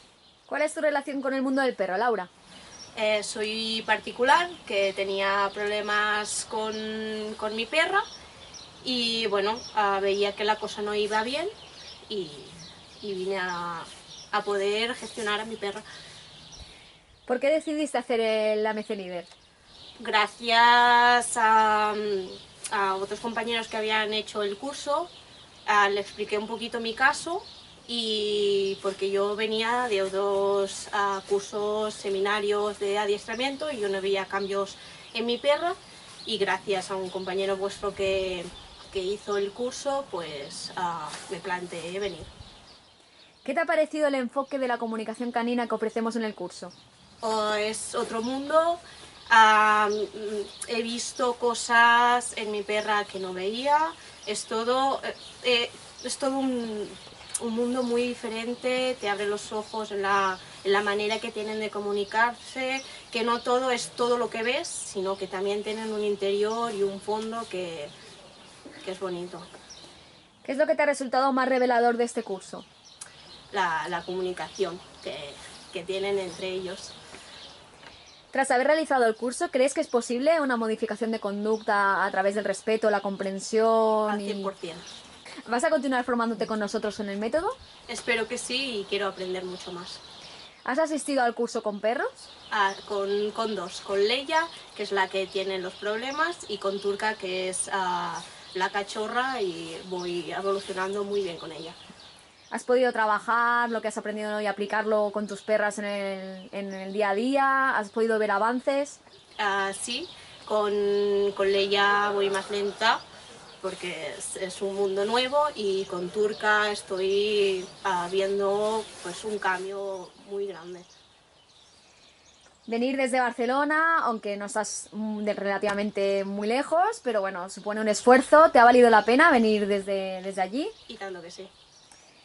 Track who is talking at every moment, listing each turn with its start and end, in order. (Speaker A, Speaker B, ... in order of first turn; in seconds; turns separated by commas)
Speaker A: 0.5-2.3, Speaker B: 2.9-8.0, Speaker B: 8.8-11.5, Speaker B: 12.1-15.8, Speaker A: 17.3-19.3, Speaker B: 20.0-25.1, Speaker B: 25.6-42.3, Speaker A: 43.4-46.7, Speaker B: 47.2-67.9, Speaker B: 68.8-69.5, Speaker A: 70.4-72.7, Speaker B: 73.5-77.0, Speaker A: 78.3-84.5, Speaker B: 84.1-84.8, Speaker A: 85.5-87.5, Speaker B: 87.9-90.0, Speaker A: 90.6-92.3, Speaker B: 92.5-101.8, Speaker A: 102.5-109.0, Speaker B: 109.4-113.0, Speaker B: 113.6-120.9, Speaker A: 122.7-130.7, Speaker B: 130.9-131.5